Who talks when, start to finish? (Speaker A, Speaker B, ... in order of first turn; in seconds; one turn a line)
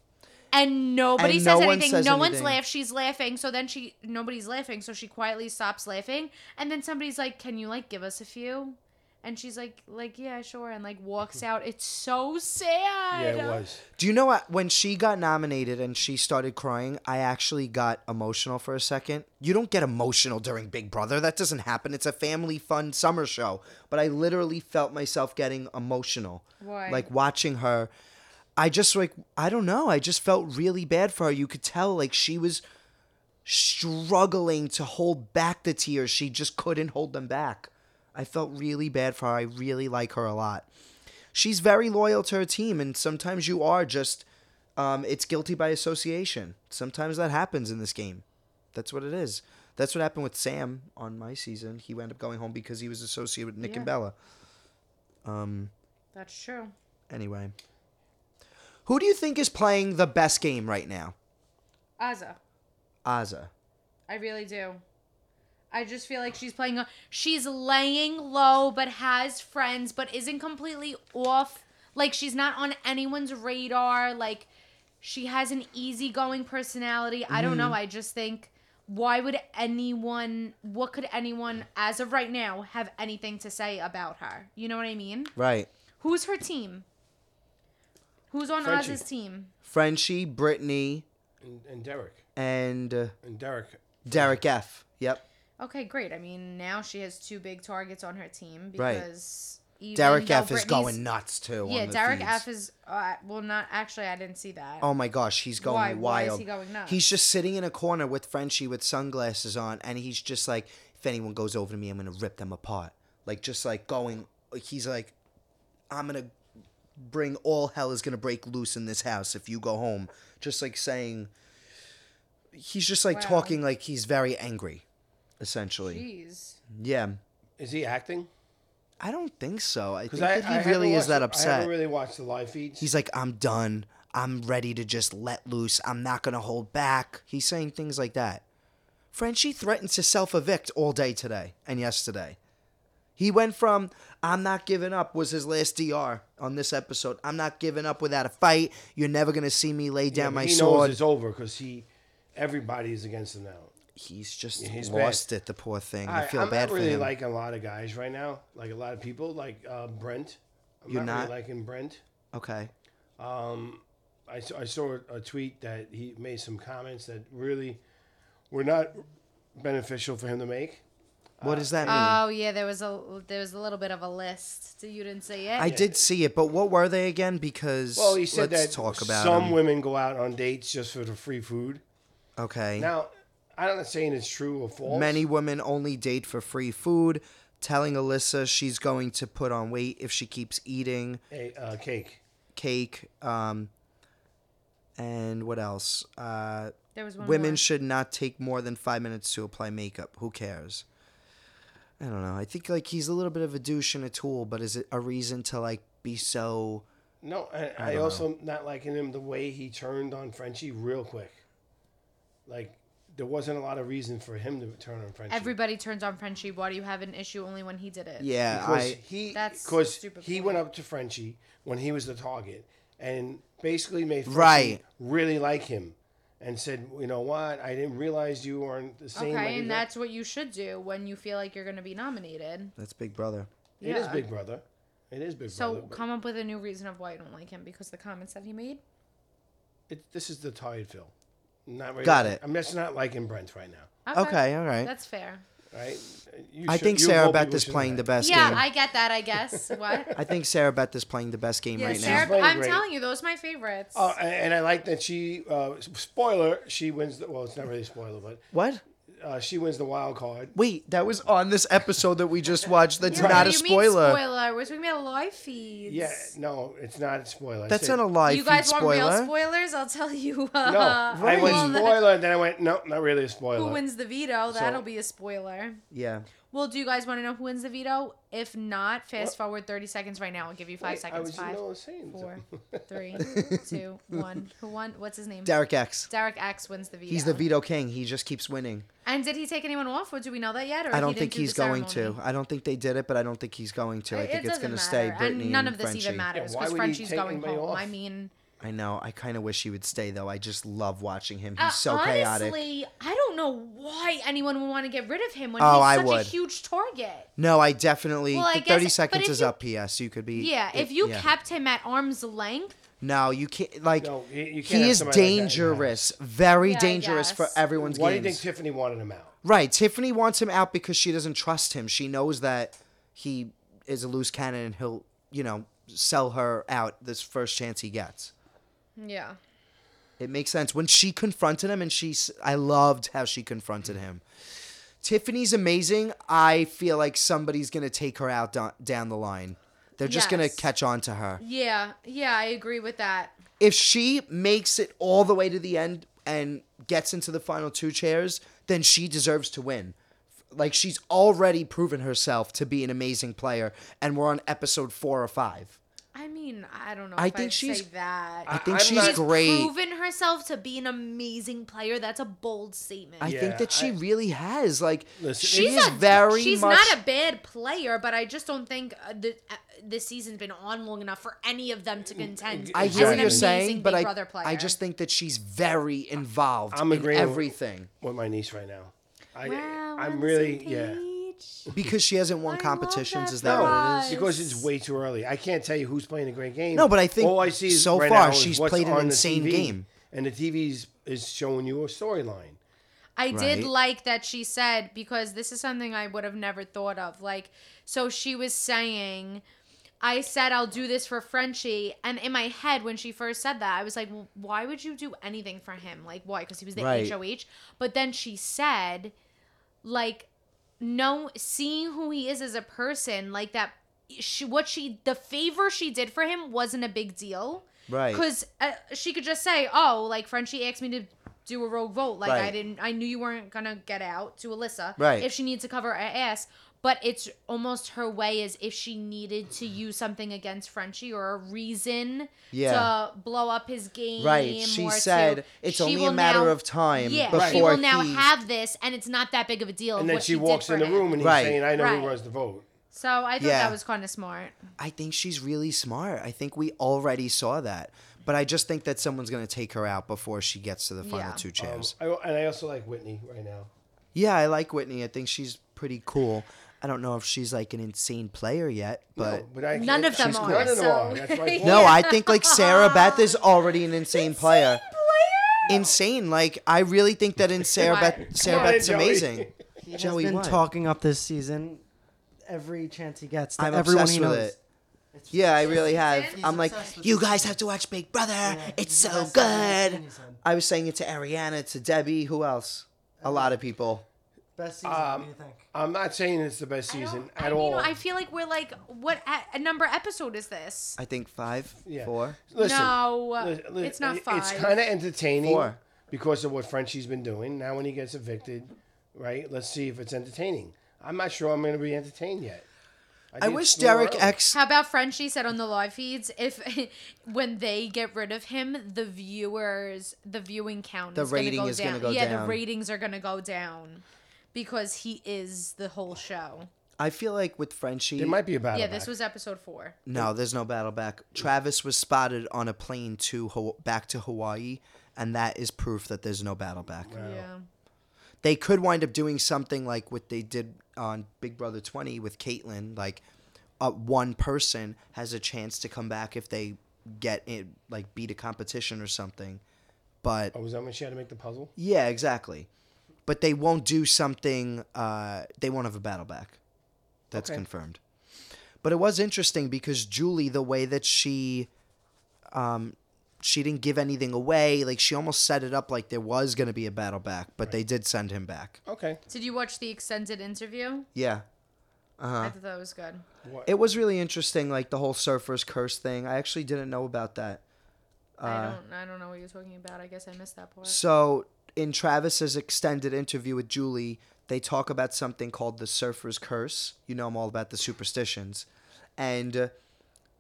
Speaker A: 0.5-13.6
Speaker B: 1.2-2.6
Speaker C: 13.1-13.8
Speaker B: 14.0-27.9
Speaker A: 26.6-27.1
Speaker B: 28.6-32.6
Speaker B: 33.4-40.7
Speaker B: 41.3-44.2
Speaker B: 44.8-54.1
Speaker A: 53.6-53.9
Speaker B: 55.2-55.7
Speaker A: 56.1-56.7
Speaker B: 57.1-57.5
Speaker B: 58.9-61.1
Speaker A: 62.0-62.4
Speaker B: 63.0-63.5
Speaker A: 64.1-64.8
Speaker A: 65.7-74.5
Speaker A: 75.0-85.3
Speaker B: 77.3-77.8
Speaker B: 85.4-85.7
Speaker A: 86.0-86.8
Speaker A: 88.3-89.5
Speaker C: 88.6-89.0
Speaker B: 89.7-91.0
Speaker C: 91.4-92.2
Speaker B: 92.4-93.1
Speaker C: 93.2-94.4
Speaker B: 94.0-95.2
Speaker A: 95.6-101.0
Speaker B: 98.8-99.0
Speaker B: 99.9-102.4
Speaker A: 101.6-104.9
Speaker B: 104.8-115.1
Speaker A: 105.6-107.0
Speaker B: 115.9-116.3
Speaker B: 117.0-121.3
Speaker B: 122.5-124.8
Speaker A: 123.1-123.6
Speaker B: 125.4-126.0
Speaker A: 125.8-126.6
Speaker B: 126.7-127.2
Speaker C: 127.6-128.3
Speaker B: 129.0-131.7
Speaker C: 130.1-132.9
Speaker B: 132.8-138.4
Speaker B: 139.1-142.4
Speaker B: 143.2-151.0
Speaker C: 150.1-153.7
Speaker B: 154.0-157.1
Speaker C: 154.6-155.2
Speaker C: 156.0-162.0
Speaker B: 160.9-161.3
Speaker B: 162.3-162.7
Speaker C: 163.2-167.8
Speaker C: 168.5-170.8
Speaker C: 171.4-172.2
Speaker B: 171.4-172.2
Speaker A: 171.9-175.8
Speaker B: 175.6-179.6
Speaker C: 175.6-175.9
Speaker C: 177.9-181.8
Speaker B: 182.4-182.9
Speaker C: 182.8-185.2
Speaker B: 184.9-191.2
Speaker C: 191.3-192.2
Speaker B: 192.5-193.7
Speaker B: 195.0-200.8
Speaker A: 196.9-197.6
Speaker B: 202.0-206.9
Speaker C: 207.2-211.4
Speaker B: 207.8-208.2
Speaker C: 212.5-215.5
Speaker A: 215.3-218.3
Speaker B: 218.2-219.0
Speaker C: 218.5-229.8
Speaker A: 219.3-220.6
Speaker B: 224.3-224.8
Speaker A: 229.1-232.7
Speaker B: 232.8-233.5
Speaker A: 233.8-234.2
Speaker C: 233.8-236.0
Speaker A: 235.5-238.8
Speaker C: 239.9-241.1
Speaker C: 241.7-243.9
Speaker B: 242.0-242.4
Speaker A: 244.1-245.4
Speaker B: 244.1-244.9
Speaker C: 245.7-248.6
Speaker B: 246.7-248.6
Speaker A: 248.2-250.1
Speaker C: 249.7-250.2
Speaker B: 250.1-252.3
Speaker A: 251.8-254.1
Speaker C: 251.8-252.8
Speaker C: 253.9-258.4
Speaker B: 258.5-258.8
Speaker C: 259.2-260.5
Speaker B: 260.5-264.2
Speaker A: 263.1-266.3
Speaker C: 263.1-263.5
Speaker C: 265.9-268.0
Speaker B: 267.7-269.3
Speaker A: 268.2-272.1
Speaker C: 270.6-273.8
Speaker B: 271.2-271.8
Speaker A: 273.6-275.8
Speaker C: 274.5-274.9
Speaker B: 275.9-276.3
Speaker A: 276.5-281.6
Speaker C: 280.8-283.3
Speaker A: 282.1-285.6
Speaker B: 283.2-283.7
Speaker B: 285.4-286.1
Speaker A: 286.1-287.4
Speaker B: 287.1-288.9
Speaker A: 289.0-292.2
Speaker B: 290.9-296.2
Speaker A: 294.1-298.3
Speaker C: 296.3-297.9
Speaker B: 298.6-302.6
Speaker A: 301.6-307.3
Speaker B: 305.6-306.3
Speaker B: 307.4-311.3
Speaker A: 308.3-309.5
Speaker A: 310.3-312.8
Speaker B: 313.0-314.1
Speaker C: 314.0-316.1
Speaker B: 314.6-318.4
Speaker A: 316.6-317.6
Speaker C: 317.8-319.3
Speaker B: 319.4-328.3
Speaker A: 329.0-329.4
Speaker B: 330.2-334.2
Speaker B: 335.0-341.4
Speaker A: 340.0-340.7
Speaker A: 341.4-343.4
Speaker B: 343.6-350.0
Speaker B: 350.5-355.8
Speaker A: 356.1-363.3
Speaker B: 357.2-357.9
Speaker C: 358.5-359.2
Speaker B: 358.5-359.7
Speaker B: 363.2-367.0
Speaker C: 363.2-364.0
Speaker C: 365.2-365.9
Speaker A: 365.4-374.8
Speaker C: 372.1-373.5
Speaker B: 372.7-377.9
Speaker C: 376.7-381.0
Speaker A: 379.4-381.7
Speaker B: 381.7-384.2
Speaker A: 382.5-384.7
Speaker C: 383.4-392.6
Speaker B: 386.7-389.9
Speaker A: 393.2-399.4
Speaker B: 393.3-393.7
Speaker A: 400.0-409.1
Speaker B: 406.8-407.1
Speaker A: 409.8-410.3
Speaker A: 410.8-441.2
Speaker B: 417.9-418.2
Speaker B: 422.2-422.5
Speaker B: 425.0-425.3
Speaker B: 432.5-432.9
Speaker B: 434.2-438.3
Speaker C: 437.3-437.7
Speaker C: 440.0-442.6
Speaker B: 441.2-441.6
Speaker A: 441.8-442.2
Speaker A: 442.9-444.6
Speaker B: 443.4-443.8
Speaker B: 444.8-451.9
Speaker A: 451.0-451.4
Speaker C: 451.6-453.7
Speaker B: 454.1-459.5
Speaker C: 459.2-462.0
Speaker A: 459.7-463.4
Speaker B: 460.1-460.8
Speaker B: 461.6-464.8
Speaker A: 464.1-465.8
Speaker B: 465.7-470.7
Speaker A: 467.8-468.8
Speaker C: 467.8-469.6
Speaker D: 469.8-471.8
Speaker D: 472.4-474.6
Speaker B: 473.6-474.5
Speaker D: 475.1-477.6
Speaker B: 475.3-484.0
Speaker A: 475.6-476.5
Speaker D: 478.4-480.4
Speaker D: 483.2-483.5
Speaker D: 484.6-485.7
Speaker C: 484.8-487.9
Speaker A: 486.9-491.0
Speaker B: 491.0-492.4
Speaker C: 491.8-502.7
Speaker A: 492.6-494.8
Speaker B: 495.4-495.8
Speaker C: 503.3-504.4
Speaker B: 503.4-504.6
Speaker A: 504.5-516.7
Speaker B: 511.1-512.6
Speaker B: 517.0-518.4
Speaker C: 518.2-519.1
Speaker A: 518.7-520.0
Speaker B: 520.0-527.1
Speaker C: 527.0-527.5
Speaker A: 527.1-527.6
Speaker B: 528.4-533.2
Speaker B: 533.8-539.6
Speaker B: 540.2-540.5
Speaker C: 540.5-541.7
Speaker B: 541.8-542.7
Speaker B: 543.3-546.6
Speaker B: 547.3-548.0
Speaker C: 547.3-547.6
Speaker B: 548.8-551.7
Speaker B: 552.5-558.8
Speaker C: 558.9-559.2
Speaker A: 559.3-561.1
Speaker B: 561.1-561.5
Speaker B: 562.2-562.5
Speaker A: 562.4-563.2
Speaker C: 563.4-563.8
Speaker B: 563.7-567.6
Speaker B: 568.4-568.8
Speaker A: 568.4-571.0
Speaker B: 570.8-578.7
Speaker B: 579.2-579.7